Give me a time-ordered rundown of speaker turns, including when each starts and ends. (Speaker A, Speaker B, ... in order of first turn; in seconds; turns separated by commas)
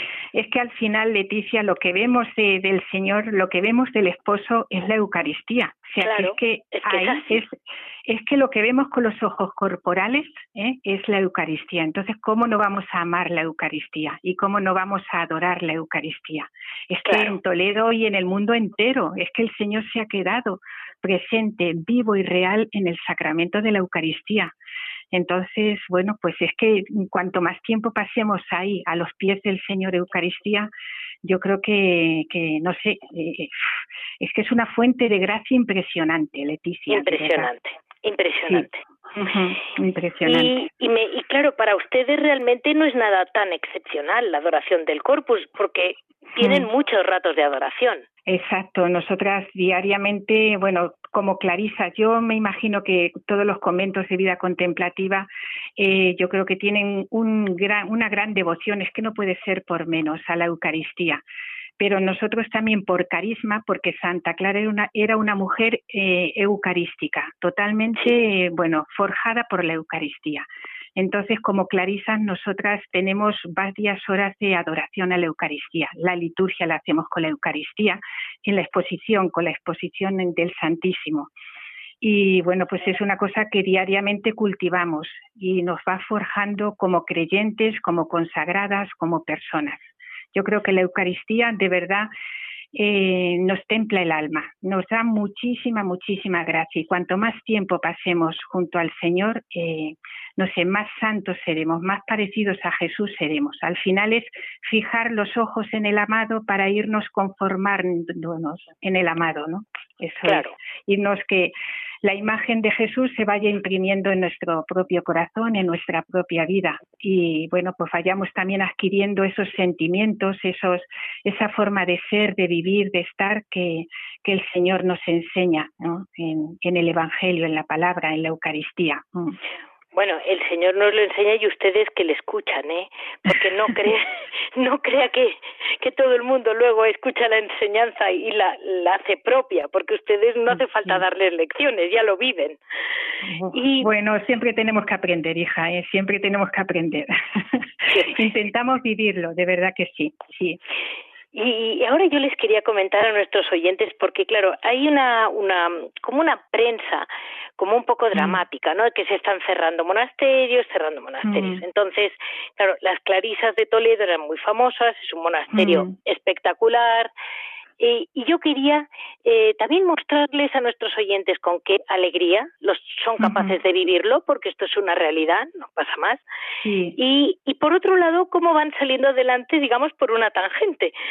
Speaker A: 0.3-7.5, Speaker B: 6.0-7.4, Speaker A: 8.1-24.5, Speaker B: 17.1-17.3, Speaker A: 25.1-30.7, Speaker A: 31.2-33.5, Speaker A: 34.2-37.5, Speaker B: 36.9-38.8, Speaker A: 38.5-40.7, Speaker B: 40.2-48.0, Speaker A: 46.4-46.7, Speaker A: 48.3-61.2, Speaker A: 61.8-81.3, Speaker A: 82.0-92.1, Speaker A: 92.7-129.4, Speaker B: 110.2-110.5, Speaker B: 129.9-142.6, Speaker A: 143.2-150.6, Speaker B: 143.5-143.9, Speaker B: 151.3-167.1, Speaker A: 158.1-158.4, Speaker A: 161.2-161.6, Speaker A: 165.5-165.9, Speaker B: 167.8-176.2, Speaker A: 173.2-173.5, Speaker A: 176.6-177.0, Speaker B: 176.9-180.9